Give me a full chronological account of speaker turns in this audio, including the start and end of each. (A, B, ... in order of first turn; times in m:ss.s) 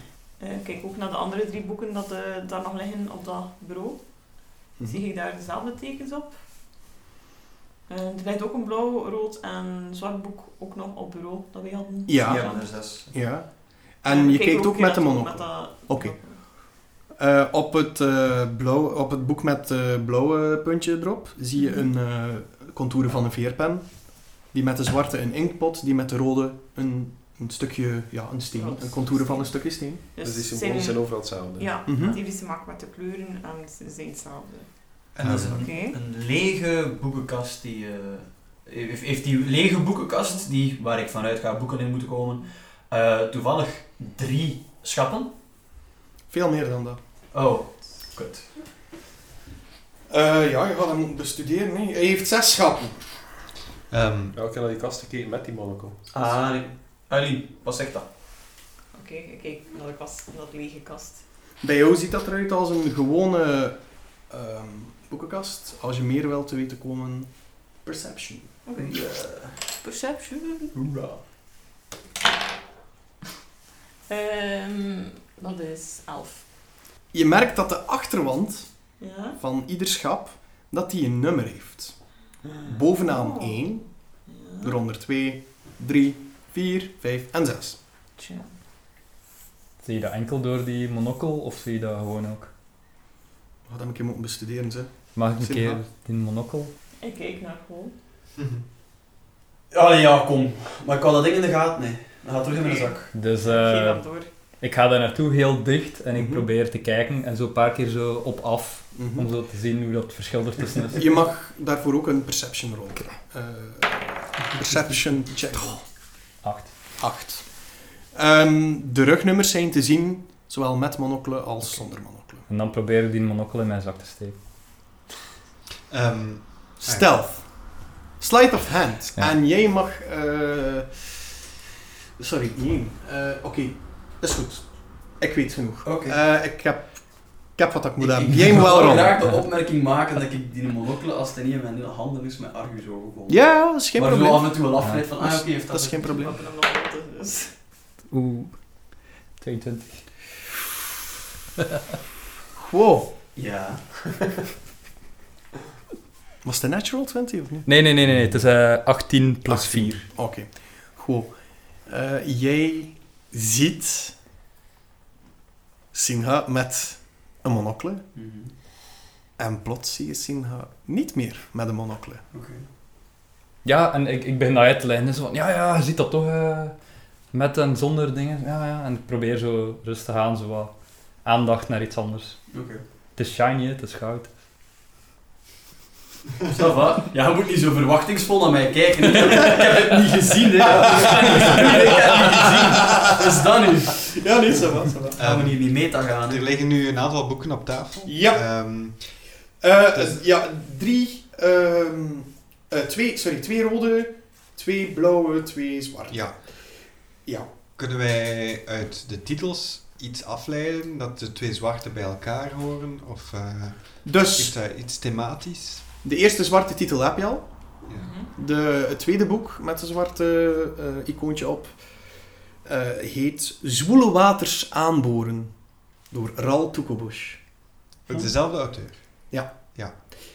0:00.4-0:06.4 A
0:07.9-0:12.7 A
0:12.1-0:30.1 B
0:12.2-0:13.1 C
0:14.1-0:16.4 A
0:21.6-0:21.9 A
0:28.5-0:36.0 A
0:30.2-0:31.8 D
0:31.9-0:32.2 B
0:35.2-0:45.3 C
0:35.2-0:35.7 E
0:46.3-0:47.0 B
0:47.3-0:48.5 C
0:50.1-0:53.1 B
0:53.9-0:54.4 E
0:54.3-0:56.0 D
0:56.1-0:58.0 C
0:58.9-1:01.2 A
1:01.6-1:08.5 B
1:08.6-1:09.0 A
1:08.8-1:09.6 C
1:09.7-1:10.7 A
1:10.7-1:11.2 C
1:14.1-1:16.4 A
1:17.1-1:18.7 B
1:19.0-1:19.4 A
1:19.4-1:22.0 B
1:22.6-1:23.8 B
1:23.0-1:23.7 A
1:24.3-1:24.8 A
1:24.6-1:27.8 B
1:28.2-1:28.5 A
1:29.8-1:32.5 F
1:33.7-1:35.8 B
1:35.1-1:36.7 F
1:37.0-1:37.9 A
1:38.4-1:38.6 E
1:39.7-1:43.1 C
1:42.5-1:44.3 A
1:43.1-1:44.0 F
1:44.6-1:51.0 F
1:46.1-1:46.5 B
1:48.9-1:49.3 B
1:50.9-1:55.8 B
1:56.4-1:56.7 F
1:57.0-2:02.4 B
2:02.5-2:04.4 F
2:05.9-2:07.1 E
2:06.8-2:11.2 B
2:12.2-2:14.7 B
2:15.2-2:19.2 B
2:15.8-2:16.2 C
2:18.0-2:26.0 C
2:23.3-2:24.6 B
2:25.2-2:26.4 B
2:26.0-2:27.5 A
2:28.1-2:28.7 F
2:29.4-2:30.0 F
2:32.6-2:33.1 B
2:33.4-2:34.1 C
2:36.4-2:37.7 B
2:37.6-2:40.0 F
2:39.5-2:44.1 B
2:45.9-2:48.0 B
2:48.2-2:48.5 C
2:49.4-2:52.2 B
2:52.3-2:52.6 C
2:53.6-2:56.8 F
2:57.3-3:02.4 F
3:02.5-3:02.8 C
3:03.2-3:04.3 F
3:06.5-3:14.1 C
3:10.6-3:13.4 B
3:14.0-3:15.2 B
3:15.2-3:19.3 E
3:15.2-3:16.4 C
3:18.0-3:19.0 B
3:19.6-3:26.6 B
3:19.9-3:20.2 E
3:26.1-3:26.4 E
3:27.8-3:35.8 E
3:34.0-3:34.5 B
3:36.0-3:37.5 B
3:38.0-3:38.3 A
3:38.3-3:41.8 B
3:42.6-3:45.5 B
3:46.1-3:47.4 B
3:48.1-3:49.0 E